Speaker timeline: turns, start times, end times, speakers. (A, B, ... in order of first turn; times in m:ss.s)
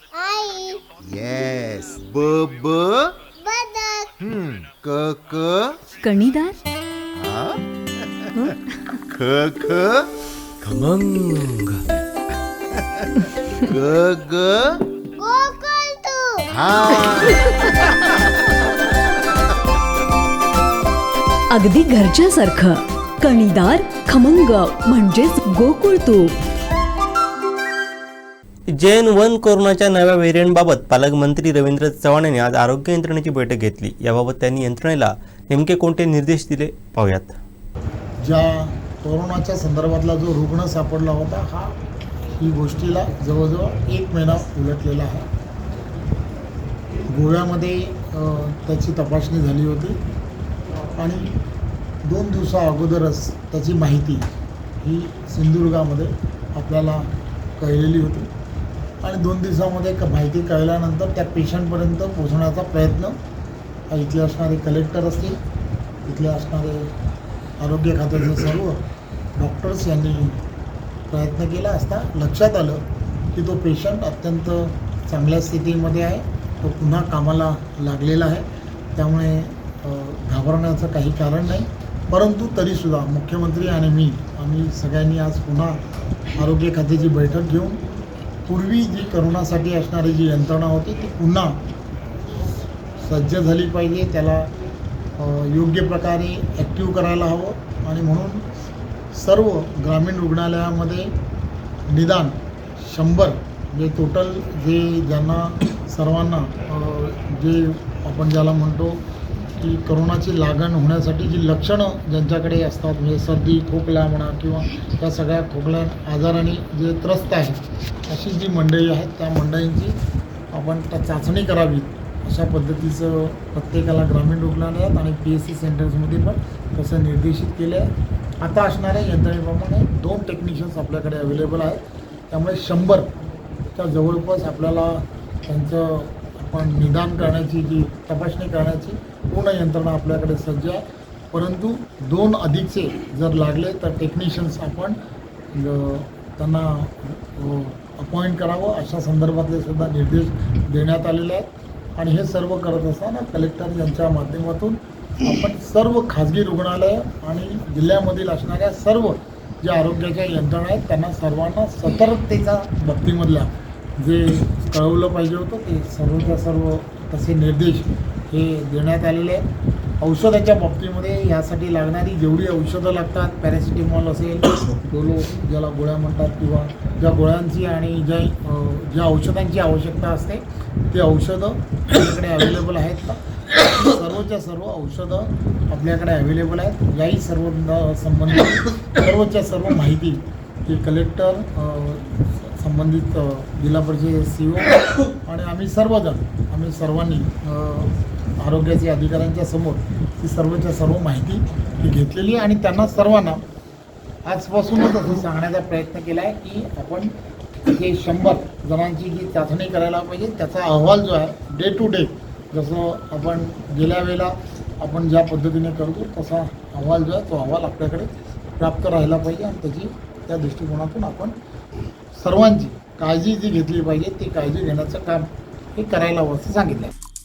0:00.2-0:00.8 A
0:01.0-0:03.2 B
0:03.4-0:04.1 A
0:04.2-0:05.8 B
0:06.0-0:06.6 C
0:07.2-0:08.6 B
0:09.1-0:10.1 B
0:11.3-0:11.6 B
0:12.8-0:13.0 B
0:13.7-0:14.8 B
0:15.2-0:16.4 A
0:16.5-0:18.3 B
0:21.5-0:26.4 C
0:28.7-0:37.4 D
0:38.2-0:41.8 E
0:42.3-0:45.3 E
0:47.1-0:50.0 E
0:51.0-0:51.3 E
0:52.0-0:54.3 E
0:54.8-0:57.1 E
0:57.6-0:58.3 E
0:59.0-1:03.2 E
1:03.9-1:05.4 E
1:06.1-1:06.9 E
1:07.6-1:08.8 E
1:09.4-1:10.4 E
1:11.1-1:12.8 E
1:13.3-1:25.8 E
1:26.4-1:27.8 E
1:28.5-1:31.6 E
1:33.0-1:34.5 E
1:35.2-1:38.4 E
1:39.2-1:41.1 E
1:41.9-1:49.0 E
1:49.6-2:00.0 E
2:00.5-2:07.9 E
2:08.4-2:13.1 E
2:13.7-2:25.0 E
2:25.6-2:31.5 E
2:32.0-2:49.4 E
2:50.0-3:23.4 E
3:24.2-3:27.1 E
3:27.7-3:41.3 E
3:42.2-3:46.9 E